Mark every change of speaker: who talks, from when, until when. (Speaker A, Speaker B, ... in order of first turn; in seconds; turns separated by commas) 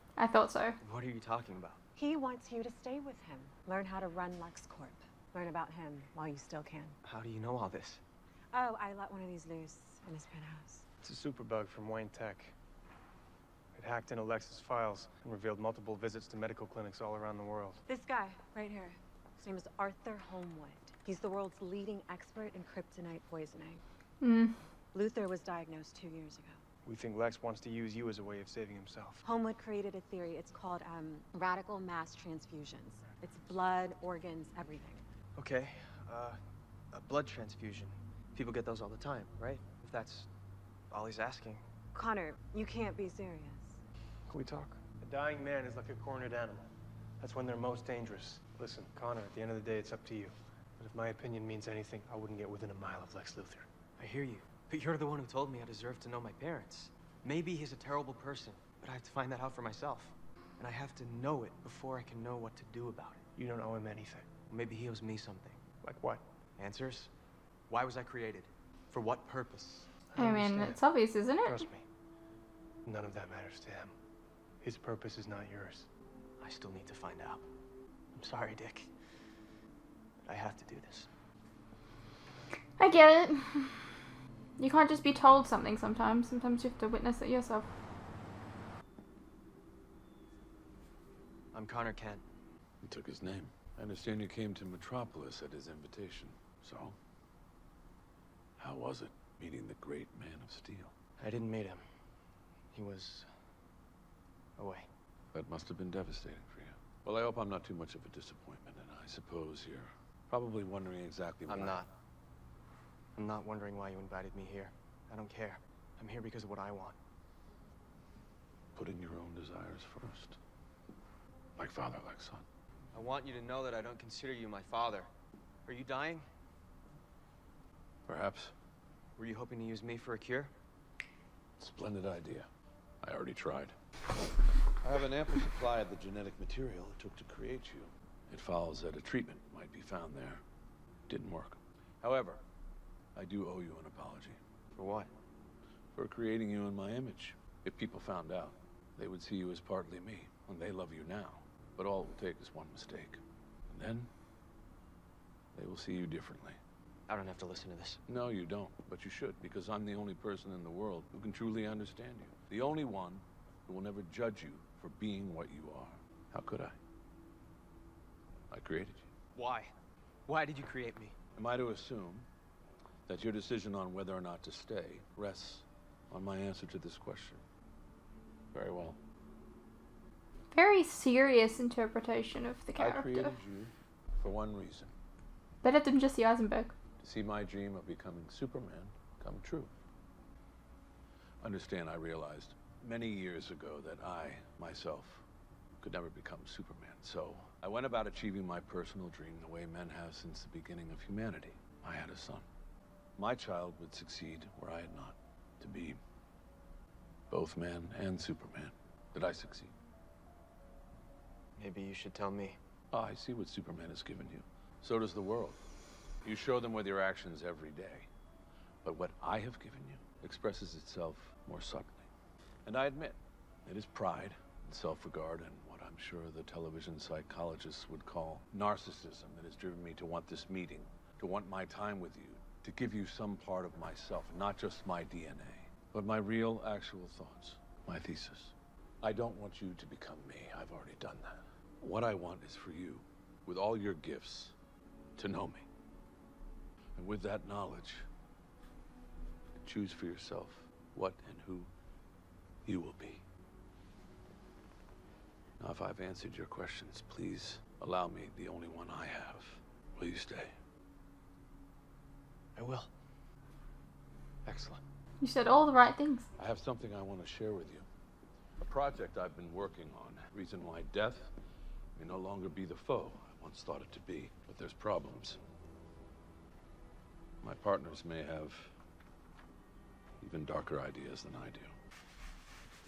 Speaker A: 0.2-0.8, Speaker B: 0.8-1.8, Speaker C: 1.9-7.0, Speaker B: 7.0-8.0, Speaker C: 8.5-10.8, Speaker D: 11.0-12.5, Speaker D: 13.7-17.8, Speaker C: 17.9-23.8, Speaker A: 24.2-24.6, Speaker C: 24.9-26.6, Speaker D: 26.8-29.2, Speaker C: 29.2-35.0, Speaker B: 35.4-36.4, Speaker B: 36.9-40.3, Speaker B: 40.9-41.6, Speaker C: 41.9-43.8, Speaker D: 44.3-46.6, Speaker D: 47.2-53.7, Speaker B: 54.0-63.2, Speaker D: 63.4-64.3, Speaker B: 64.4-65.7, Speaker D: 65.8-66.2, Speaker B: 66.6-67.1, Speaker B: 67.7-70.0, Speaker D: 70.1-70.8, Speaker A: 70.2-71.7, Speaker D: 71.4-71.8, Speaker D: 72.8-73.9, Speaker D: 74.6-75.9, Speaker B: 76.4-77.5, Speaker B: 78.2-78.9, Speaker B: 80.2-81.1, Speaker A: 82.8-83.9, Speaker A: 84.6-87.7, Speaker B: 91.5-92.2, Speaker E: 92.8-97.0, Speaker E: 98.6-100.9, Speaker B: 101.2-101.8, Speaker B: 102.7-103.4, Speaker B: 104.6-104.9, Speaker E: 105.3-111.8, Speaker B: 111.5-111.9, Speaker B: 113.1-117.0, Speaker E: 118.7-120.4, Speaker E: 121.5-122.5, Speaker B: 122.9-125.1, Speaker B: 125.7-126.2, Speaker E: 128.1-128.5, Speaker B: 129.2-130.5, Speaker E: 131.6-132.5, Speaker E: 133.0-133.7, Speaker E: 134.8-140.4, Speaker E: 141.1-142.4, Speaker E: 143.1-144.4, Speaker B: 144.7-145.1, Speaker E: 145.9-154.1, Speaker E: 155.5-156.6, Speaker B: 157.1-158.0, Speaker E: 158.1-166.8, Speaker E: 168.5-169.1, Speaker B: 169.3-169.7, Speaker B: 170.3-171.1, Speaker E: 171.3-172.3, Speaker E: 173.1-177.4, Speaker E: 178.5-179.0, Speaker A: 180.5-183.3, Speaker E: 182.8-184.9, Speaker A: 185.6-186.7, Speaker E: 187.0-189.7, Speaker E: 191.4-195.2, Speaker E: 195.8-202.4, Speaker E: 203.2-206.0, Speaker E: 207.3-209.7, Speaker B: 211.6-212.6, Speaker E: 212.9-215.6, Speaker E: 216.2-218.1, Speaker E: 218.8-222.1, Speaker E: 222.6-244.5, Speaker E: 245.2-245.7, Speaker E: 246.9-248.1, Speaker E: 249.6-251.7, Speaker E: 252.6-253.2, Speaker E: 255.6-260.5, Speaker B: 262.5-262.9, Speaker B: 264.4-264.8, Speaker A: 265.2-266.3, Speaker E: 266.4-267.9, Speaker E: 268.6-271.3, Speaker E: 271.9-275.4, Speaker E: 277.4-278.7, Speaker E: 280.2-281.7